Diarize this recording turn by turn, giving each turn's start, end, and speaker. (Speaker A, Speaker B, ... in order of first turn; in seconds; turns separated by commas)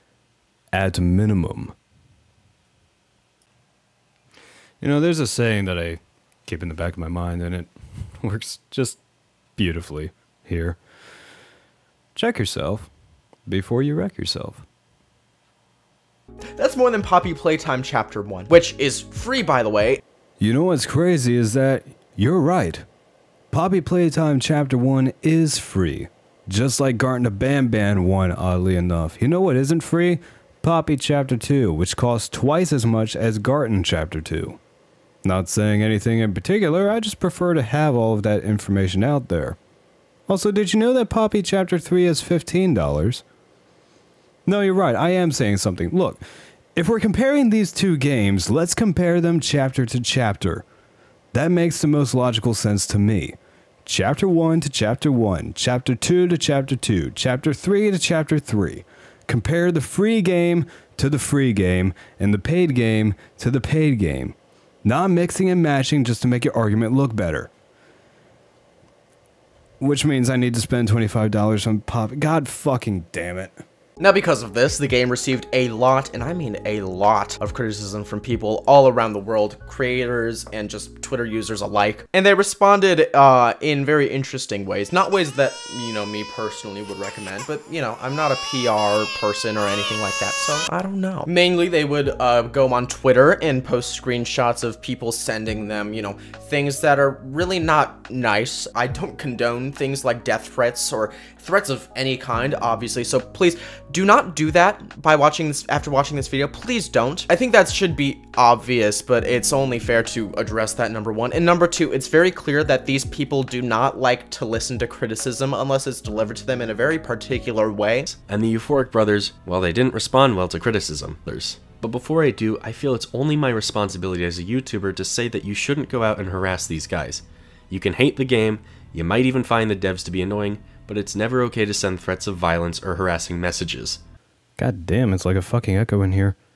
Speaker A: 0.7-1.8, Speaker A: 4.8-9.0, Speaker A: 9.6-10.8, Speaker A: 12.2-12.9, Speaker A: 13.5-14.7, Speaker B: 16.6-20.0, Speaker A: 20.4-22.9, Speaker A: 23.5-34.6, Speaker A: 35.2-39.6, Speaker A: 40.3-43.2, Speaker A: 44.5-46.2, Speaker A: 46.8-50.6, Speaker A: 51.3-67.5, Speaker A: 69.8-73.6, Speaker B: 74.0-118.2, Speaker C: 118.2-134.0, Speaker A: 134.6-136.4